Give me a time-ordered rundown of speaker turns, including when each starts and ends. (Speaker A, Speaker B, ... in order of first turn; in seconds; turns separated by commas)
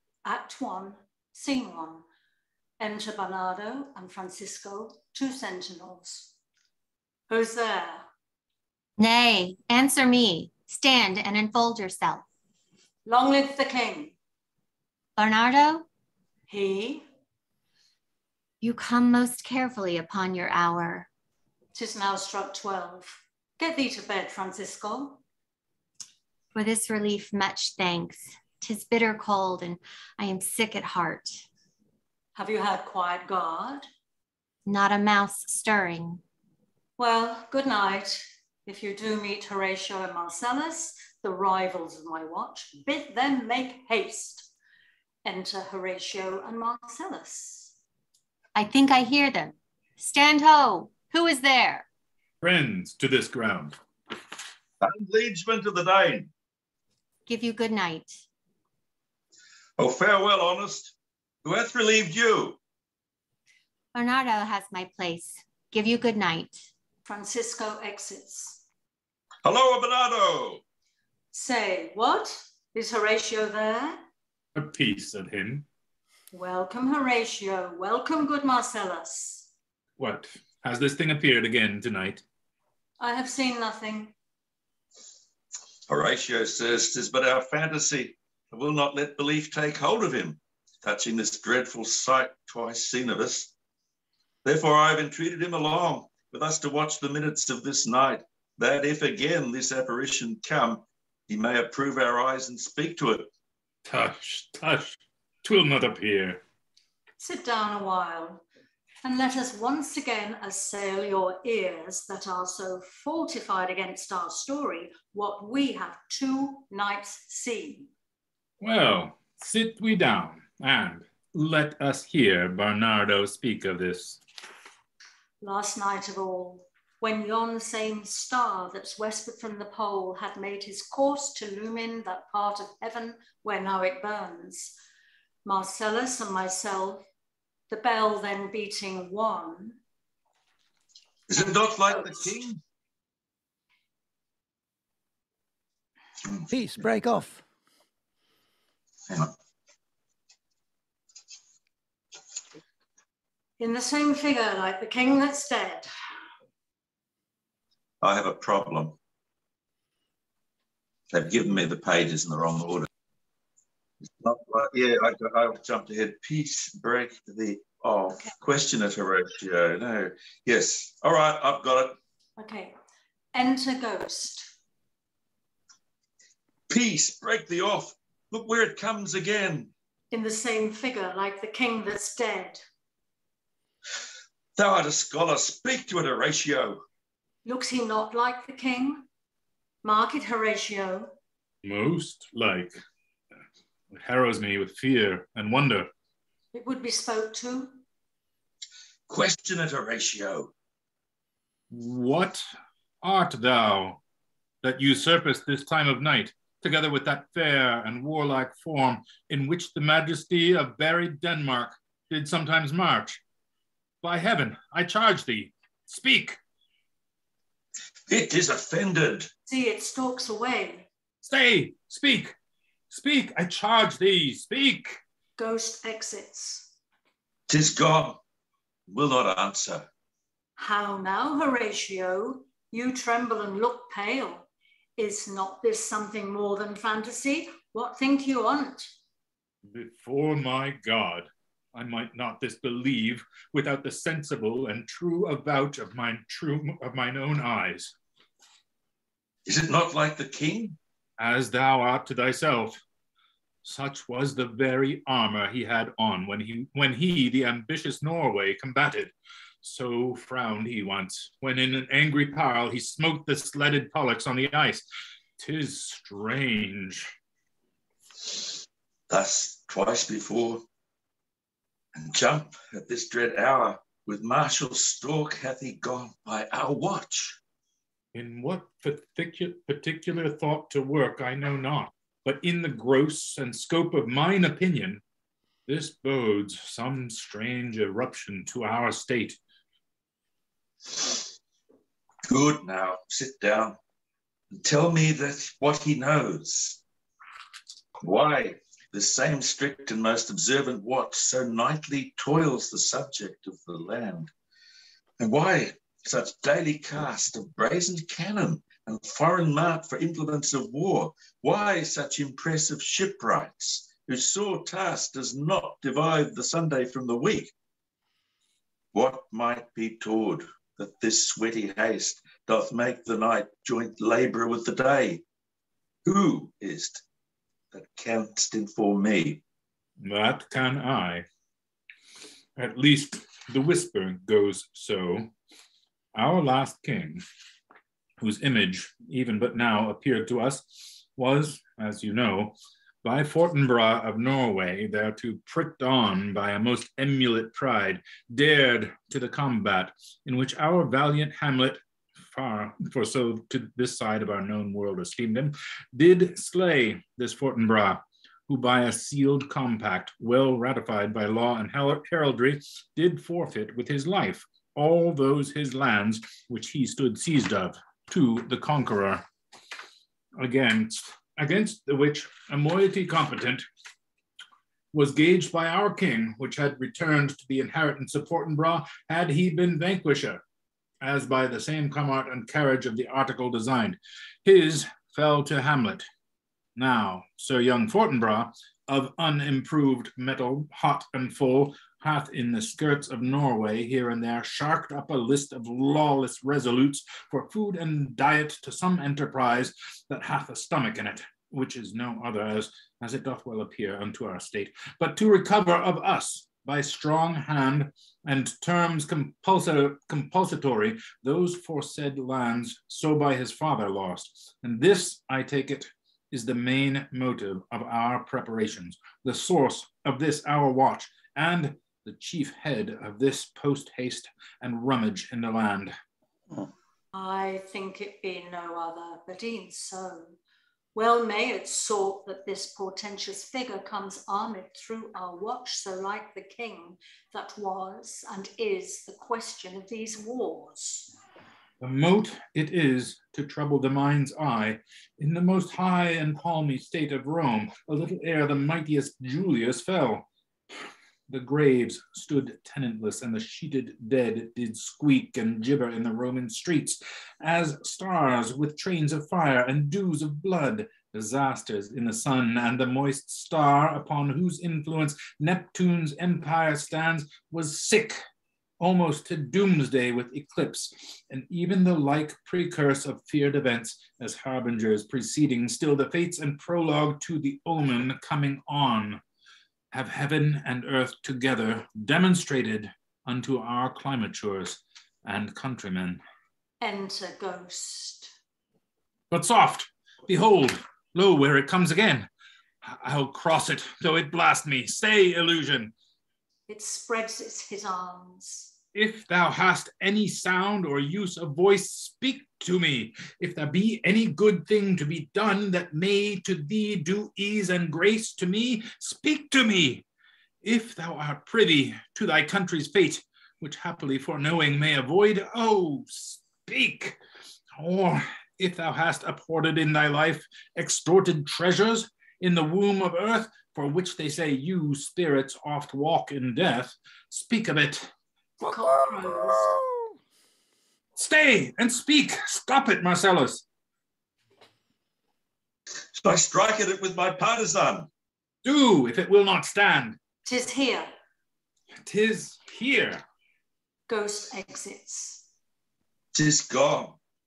Speaker A: 0.2-2.0, Speaker A: 2.8-6.3, Speaker A: 7.3-8.0, Speaker B: 9.0-12.2, Speaker A: 13.0-14.2, Speaker B: 15.2-15.9, Speaker A: 16.5-17.0, Speaker B: 18.6-21.1, Speaker A: 21.7-25.2, Speaker B: 26.5-31.4, Speaker A: 32.3-33.8, Speaker B: 34.6-36.2, Speaker A: 37.0-44.5, Speaker A: 45.2-47.7, Speaker B: 48.5-51.9, Speaker C: 52.4-53.8, Speaker D: 54.8-56.3, Speaker B: 57.3-58.2, Speaker D: 59.8-62.6, Speaker B: 63.9-66.6, Speaker A: 67.0-68.6, Speaker D: 69.4-70.6, Speaker A: 71.3-74.0, Speaker C: 74.5-75.7, Speaker A: 76.3-79.5, Speaker C: 80.0-82.2, Speaker A: 83.0-84.1, Speaker D: 85.9-93.5, Speaker D: 94.4-103.3, Speaker C: 103.8-106.4, Speaker A: 107.2-108.4, Speaker A: 109.0-117.9, Speaker C: 118.6-124.2, Speaker A: 125.4-134.7, Speaker A: 135.4-137.0, Speaker A: 137.7-139.8, Speaker D: 141.3-142.6, Speaker A: 141.4-142.4, Speaker E: 146.5-147.4, Speaker A: 153.6-155.9, Speaker D: 158.0-158.9, Speaker D: 161.1-162.9, Speaker D: 164.0-171.9, Speaker A: 172.4-172.7, Speaker A: 173.3-174.5, Speaker D: 176.7-179.7, Speaker A: 180.1-182.6, Speaker D: 184.6-186.8, Speaker A: 187.4-189.1, Speaker A: 189.8-191.1, Speaker C: 191.6-192.8, Speaker C: 193.9-195.9, Speaker A: 196.5-197.8, Speaker D: 199.1-200.5, Speaker C: 201.7-202.4, Speaker C: 203.0-204.0, Speaker C: 204.6-213.2, Speaker C: 214.0-216.4, Speaker D: 218.1-219.3, Speaker A: 219.5-220.9, Speaker C: 221.2-222.3, Speaker C: 222.9-225.0, Speaker A: 225.4-226.7, Speaker D: 227.5-228.2, Speaker D: 228.9-229.9, Speaker A: 230.6-238.9, Speaker C: 239.7-247.9, Speaker D: 249.4-250.8, Speaker C: 251.2-252.8, Speaker C: 253.6-264.8, Speaker C: 265.4-267.1, Speaker D: 268.2-270.6, Speaker D: 271.9-277.4, Speaker C: 278.1-285.0, Speaker C: 285.7-289.4, Speaker D: 290.9-291.2, Speaker D: 292.2-293.8, Speaker D: 294.5-296.8, Speaker D: 298.0-304.3, Speaker D: 305.2-317.5, Speaker D: 318.9-325.2, Speaker D: 326.0-327.0, Speaker D: 327.7-329.4, Speaker C: 330.0-331.2, Speaker C: 332.6-335.3, Speaker C: 336.1-337.2, Speaker C: 338.2-351.8, Speaker C: 352.3-369.2, Speaker C: 370.4-373.6, Speaker C: 374.9-380.4, Speaker C: 381.0-386.0, Speaker C: 386.8-425.9, Speaker A: 427.1-430.4, Speaker A: 430.9-441.1, Speaker C: 441.8-450.2, Speaker C: 451.3-468.2, Speaker C: 468.8-479.2, Speaker C: 479.9-486.2, Speaker A: 486.8-488.3, Speaker C: 489.3-492.3, Speaker C: 492.8-495.9, Speaker A: 496.7-498.7, Speaker C: 498.9-510.0, Speaker C: 510.6-517.2, Speaker C: 517.8-528.1, Speaker A: 528.6-529.7, Speaker E: 528.6-530.1, Speaker C: 531.1-533.6, Speaker D: 536.1-538.1, Speaker C: 538.6-540.2, Speaker A: 540.4-541.1, Speaker C: 542.0-543.2, Speaker A: 544.1-545.4, Speaker D: 546.3-547.2